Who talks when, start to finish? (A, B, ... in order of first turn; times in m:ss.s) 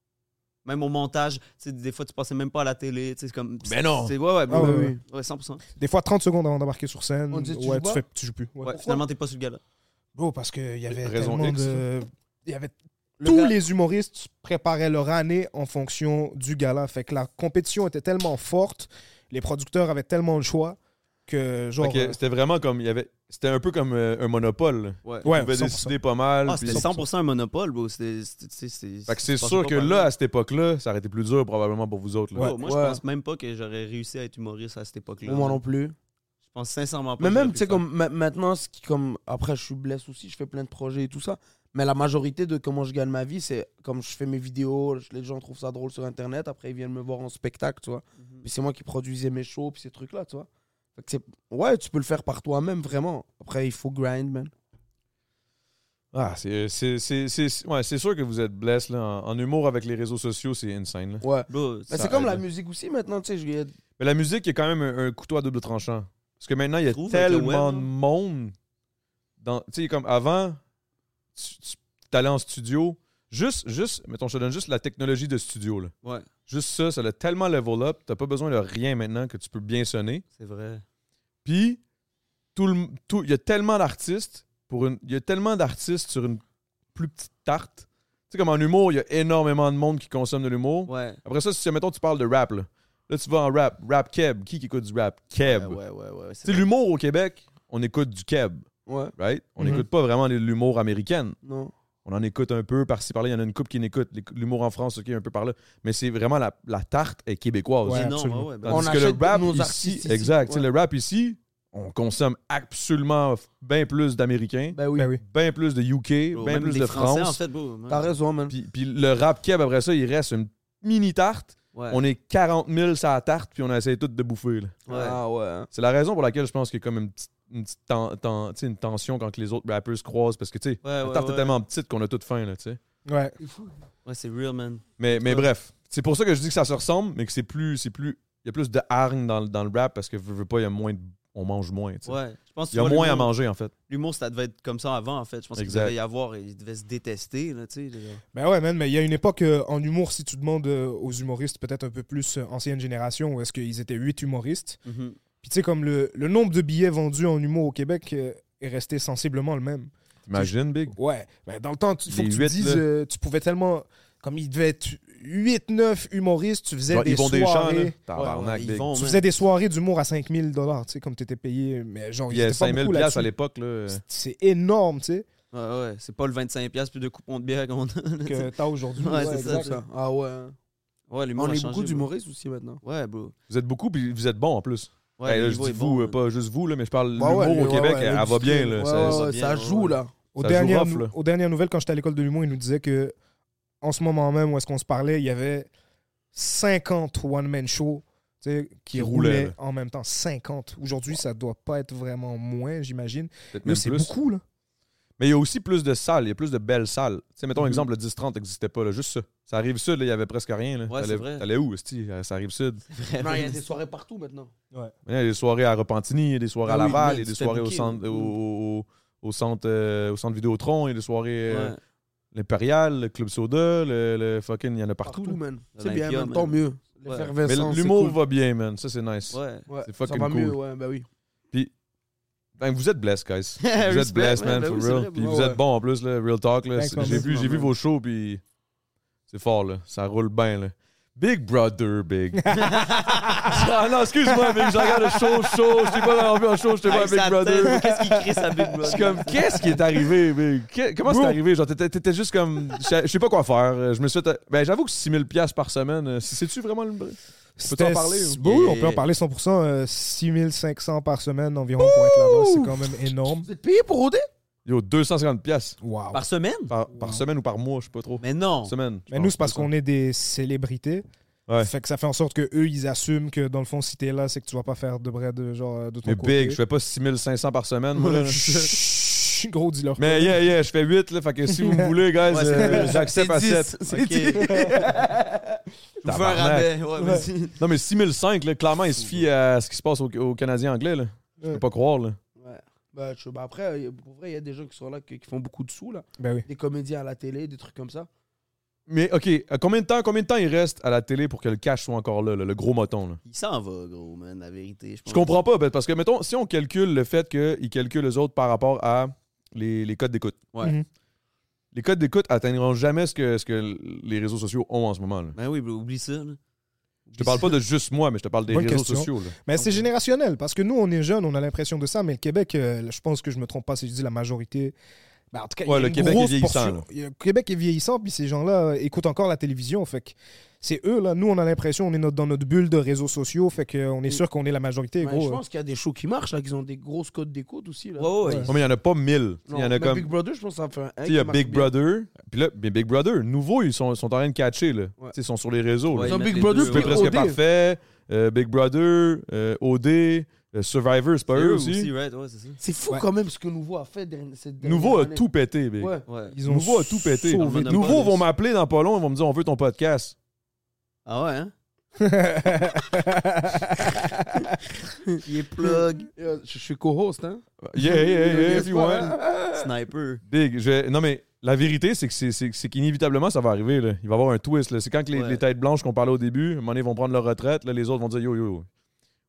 0:00.6-0:05.6 A
0:03.6-0:04.1 B
0:04.5-0:04.9 C
0:04.5-0:05.0 D
0:05.8-0:08.8 C
0:07.3-0:08.0 D
0:08.6-0:09.6 A
0:08.7-0:09.0 D
0:10.1-0:22.2 C
0:10.9-0:11.8 B
0:13.2-0:13.5 D
0:21.8-0:26.9 B
0:25.2-0:26.0 C
0:26.4-0:30.1 A
0:26.7-0:27.0 C
0:29.1-0:32.5 B
0:32.4-0:35.6 A
0:32.6-0:33.0 D
0:35.2-0:35.9 D
0:36.5-0:37.8 A
0:37.2-0:54.5 D
0:48.2-0:48.4 A
0:56.1-1:01.2 B
1:01.2-1:03.7 D
1:01.5-1:02.0 A
1:01.9-1:02.4 B
1:04.0-1:08.5 B
1:06.9-1:07.9 A
1:09.4-1:10.6 B
1:11.4-1:15.9 B
1:16.0-1:16.3 A
1:16.4-1:20.2 B
1:20.4-1:20.8 A
1:21.4-1:21.8 B
1:22.5-1:26.4 B
1:26.9-1:35.8 B
1:30.9-1:31.2 A
1:35.4-1:36.7 A
1:36.4-1:41.4 B
1:38.8-1:39.1 D
1:41.4-1:41.7 D
1:42.0-1:57.4 B
1:47.8-1:48.5 C
1:47.9-1:48.9 A
1:48.7-1:50.7 D
1:54.7-1:55.1 D
1:55.0-1:55.2 C
1:56.3-1:58.1 A
1:57.9-1:58.5 D
1:58.5-2:04.7 B
2:01.7-2:02.0 A
2:04.9-2:05.2 A
2:04.9-2:05.7 D
2:05.7-2:12.8 B
2:10.8-2:11.6 A
2:13.0-2:13.4 C
2:13.4-2:13.7 D
2:14.0-2:14.9 A
2:15.0-2:22.2 B
2:15.1-2:15.4 D
2:22.0-2:23.3 A
2:22.7-2:23.7 B
2:23.9-2:28.2 A
2:25.6-2:25.9 B
2:28.3-2:34.8 C
2:34.8-2:35.2 A
2:35.4-2:48.0 C
2:40.3-2:41.0 B
2:42.1-2:42.8 B
2:46.9-2:48.9 B
2:48.1-2:49.2 A
2:48.9-2:53.3 C
2:52.3-2:54.0 B
2:53.9-2:55.2 C
2:55.5-2:59.8 A
2:58.2-2:59.8 C
2:59.1-3:00.5 D
3:01.1-3:02.1 A
3:01.4-3:02.8 D
3:02.8-3:03.3 A
3:03.5-3:09.3 B
3:05.2-3:06.2 A
3:07.2-3:10.1 D
3:08.9-3:10.0 A
3:10.4-3:13.1 C
3:10.4-3:11.1 B
3:13.8-3:15.7 C
3:16.3-3:24.4 C
3:18.9-3:19.5 B
3:23.5-3:24.1 B
3:25.2-3:32.8 B
3:30.9-3:31.4 A
3:32.9-3:33.6 A
3:33.2-3:34.5 D
3:35.1-3:41.7 B
3:36.6-3:37.2 D
3:36.8-3:38.3 A
3:41.5-3:41.8 A
3:42.3-3:45.4 B
3:45.0-3:48.2 D
3:45.8-3:47.3 A
3:47.4-3:50.6 B
3:49.3-3:49.7 A
3:49.7-3:51.0 D
3:52.6-3:58.4 B
3:53.6-3:55.2 A
3:55.2-3:55.6 D
3:56.8-3:57.3 C
3:57.0-3:57.7 A
3:59.3-4:02.5 B
4:02.5-4:03.6 A
4:03.5-4:07.9 B
4:06.8-4:09.8 A
4:08.8-4:18.4 B
4:11.0-4:11.4 C
4:17.6-4:23.5 C
4:18.4-4:19.0 A
4:22.2-4:22.5 D
4:23.3-4:24.3 D
4:24.6-4:25.8 B
4:25.8-4:26.2 C
4:26.1-4:26.7 A
4:26.7-4:29.7 B
4:26.9-4:27.2 C
4:28.2-4:28.7 A
4:29.1-4:31.0 C
4:31.6-4:36.6 C
4:36.0-4:39.3 B
4:38.1-4:38.6 A
4:39.4-4:40.4 C
4:40.0-4:43.8 B
4:41.5-4:41.9 C
4:42.3-4:43.0 A
4:42.9-4:45.2 D
4:43.9-4:44.8 A
4:46.0-4:47.6 A
4:46.0-4:46.7 B
4:47.6-4:52.2 B
4:52.4-4:58.1 D
4:56.2-4:56.4 C
4:58.9-5:03.2 B
5:03.2-5:05.4 A
5:05.1-5:10.5 B
5:11.7-5:15.4 B
5:15.3-5:16.4 A
5:17.1-5:19.4 B
5:17.2-5:17.5 C
5:18.5-5:24.7 C
5:19.6-5:19.8 A
5:25.3-5:35.4 C
5:25.6-5:26.8 B
5:35.0-5:38.1 D
5:38.0-5:38.5 A
5:38.2-5:38.5 C
5:38.4-5:40.1 B
5:39.5-5:41.7 D
5:41.0-5:51.9 B
5:45.9-5:47.2 A
5:46.0-5:47.4 D
5:51.3-5:52.6 A
5:52.6-5:55.2 D
5:54.6-6:00.1 B
5:55.8-5:56.0 D
5:56.1-5:56.4 A
5:56.3-5:58.1 C
5:57.3-5:58.2 A
6:01.0-6:01.5 A
6:02.0-6:04.2 C
6:05.2-6:06.1 A
6:05.6-6:09.6 D
6:07.6-6:09.2 B
6:09.5-6:10.2 A
6:10.3-6:18.7 B
6:15.1-6:15.4 A